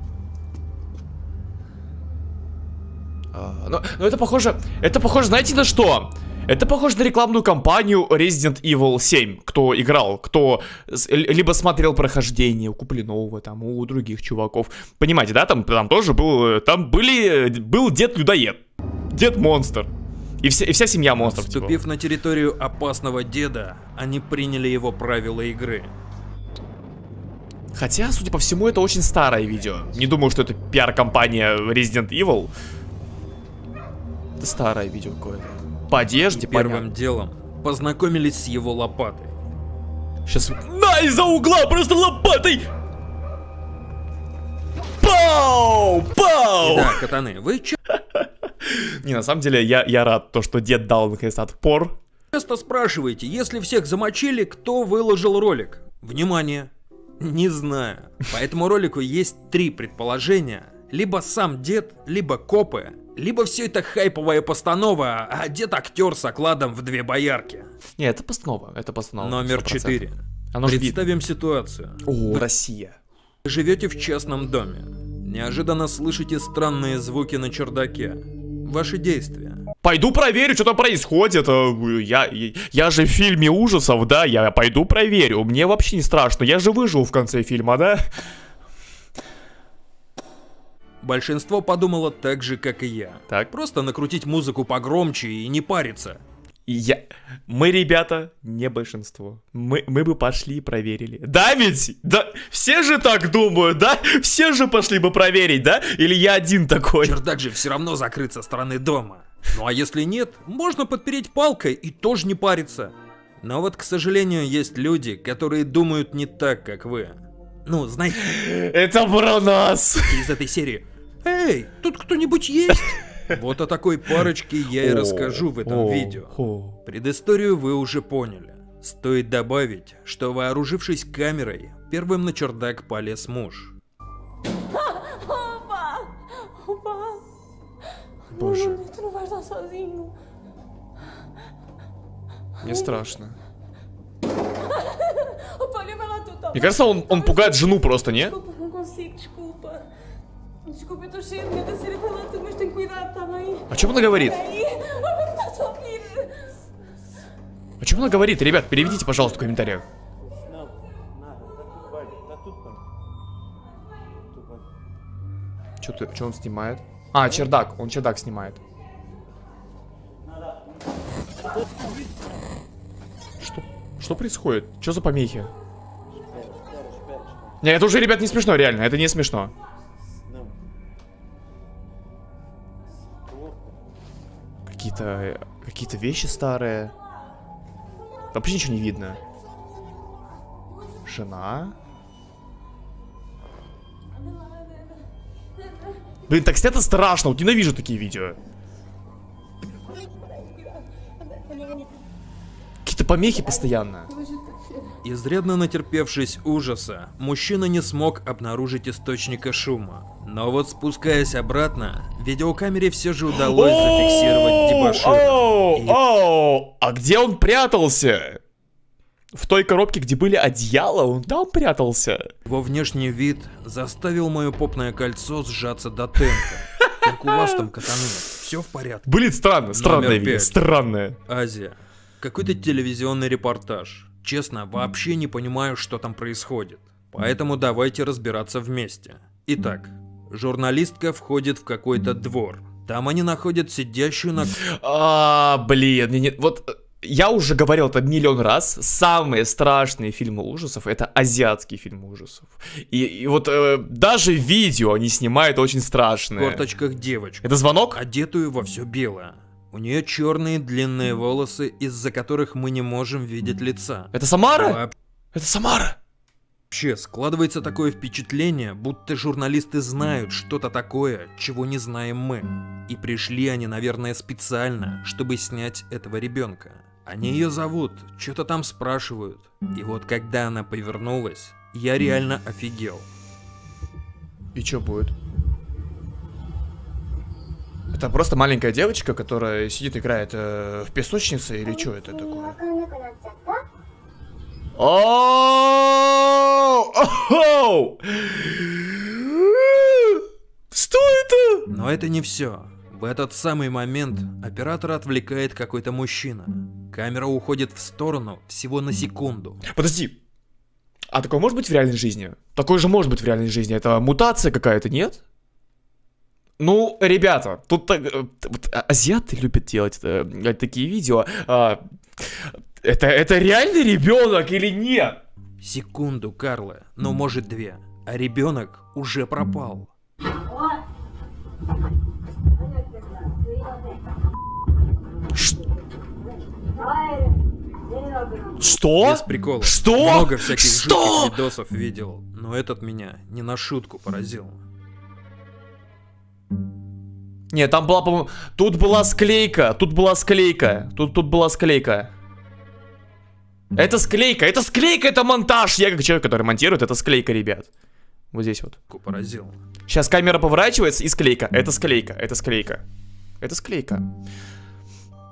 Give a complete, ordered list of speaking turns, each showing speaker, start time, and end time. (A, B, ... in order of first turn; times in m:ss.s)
0:03.3-0:18.6 A
0:19.1-0:19.9 A
0:20.4-0:21.8 A
0:21.1-0:25.9 B
0:27.7-0:32.5 A
0:34.4-0:36.8 A
0:36.3-0:39.4 B
0:40.3-0:42.7 A
0:45.0-0:47.0 A
0:46.6-0:47.8 B
0:48.0-0:52.0 A
0:52.3-1:07.7 B
1:08.0-1:11.0 A
1:09.2-1:12.4 B
1:12.0-1:13.0 A
1:13.4-1:19.6 B
1:19.8-1:28.0 A
1:31.0-1:36.2 B
1:36.7-1:47.2 A
1:47.0-1:58.3 B
1:58.2-2:00.3 A
2:00.1-2:13.8 B
2:04.8-2:06.8 A
2:15.0-2:17.2 C
2:18.3-2:18.8 A
2:18.7-2:20.1 C
2:22.6-2:23.4 A
2:25.0-2:26.6 C
2:26.5-2:28.4 A
2:28.4-2:29.9 C
2:30.7-2:33.7 C
2:33.7-2:34.5 A
2:34.5-2:36.5 C
2:37.8-2:39.8 A
2:45.8-2:48.6 A
2:53.4-2:55.5 A
2:57.6-2:59.5 A
3:04.7-3:07.0 A
3:08.3-3:09.2 A
3:11.0-3:11.8 A
3:14.4-3:14.9 C
3:16.3-3:18.4 A
3:21.5-3:21.8 C
3:22.8-3:24.1 A
3:24.4-3:24.8 C
3:25.0-3:36.0 B
3:33.4-3:38.4 A
3:39.3-3:42.3 A
3:42.5-3:49.1 B
3:46.8-3:47.7 A
3:49.1-3:51.2 A
3:49.7-3:50.5 B
3:51.3-4:04.6 B
4:04.6-4:16.6 A
4:16.3-4:24.9 B
4:17.4-4:18.0 A
4:24.1-4:24.8 A
4:25.3-4:26.0 A
4:26.7-4:43.1 B
4:44.6-4:45.1 A
4:47.9-4:52.7 A
4:54.8-5:01.7 A
5:01.7-5:09.6 B
5:09.7-5:10.2 A
5:11.1-5:15.2 A
5:16.6-5:25.2 A
5:25.6-5:29.9 B
5:35.3-5:35.7 A
5:38.5-5:41.4 A
5:39.0-5:44.6 B
5:47.5-5:52.1 A
5:53.8-5:57.7 A
5:58.3-5:58.8 A
5:58.9-5:59.6 B
5:59.9-6:02.8 A
6:03.4-6:04.0 A